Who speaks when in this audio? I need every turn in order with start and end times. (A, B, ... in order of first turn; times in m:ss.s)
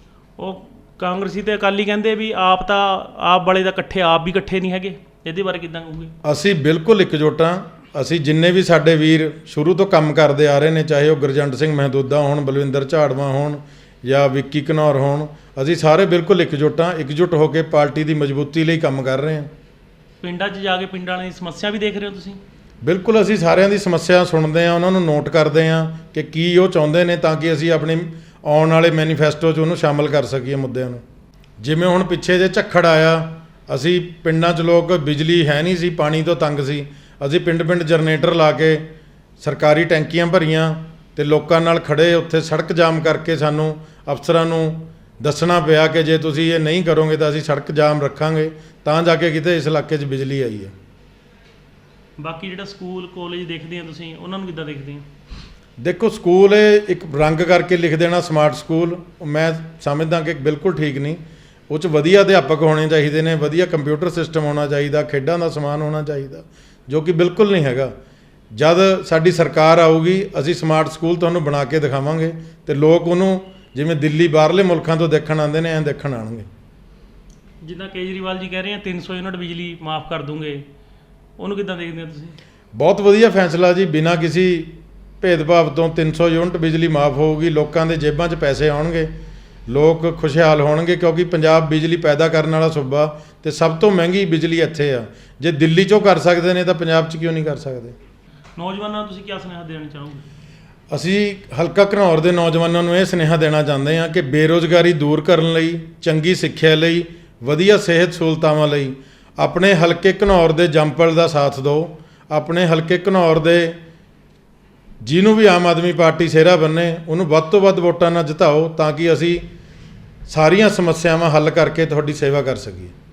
0:00.4-0:06.1 A
0:06.2-0:19.5 B
0:20.2-0:22.4 A
0:22.8-0:31.0 B
0:31.6-0:38.8 B
0:39.4-0:50.7 B
0:52.2-0:55.1 A
0:55.8-1:07.9 B
1:08.5-1:16.5 B
1:17.6-1:20.6 A
1:21.4-1:22.4 A
1:22.7-1:29.1 B
1:29.7-1:37.9 B
1:38.6-1:40.3 A
1:40.9-1:53.8 B
1:55.0-1:59.4 B
2:00.3-2:02.9 B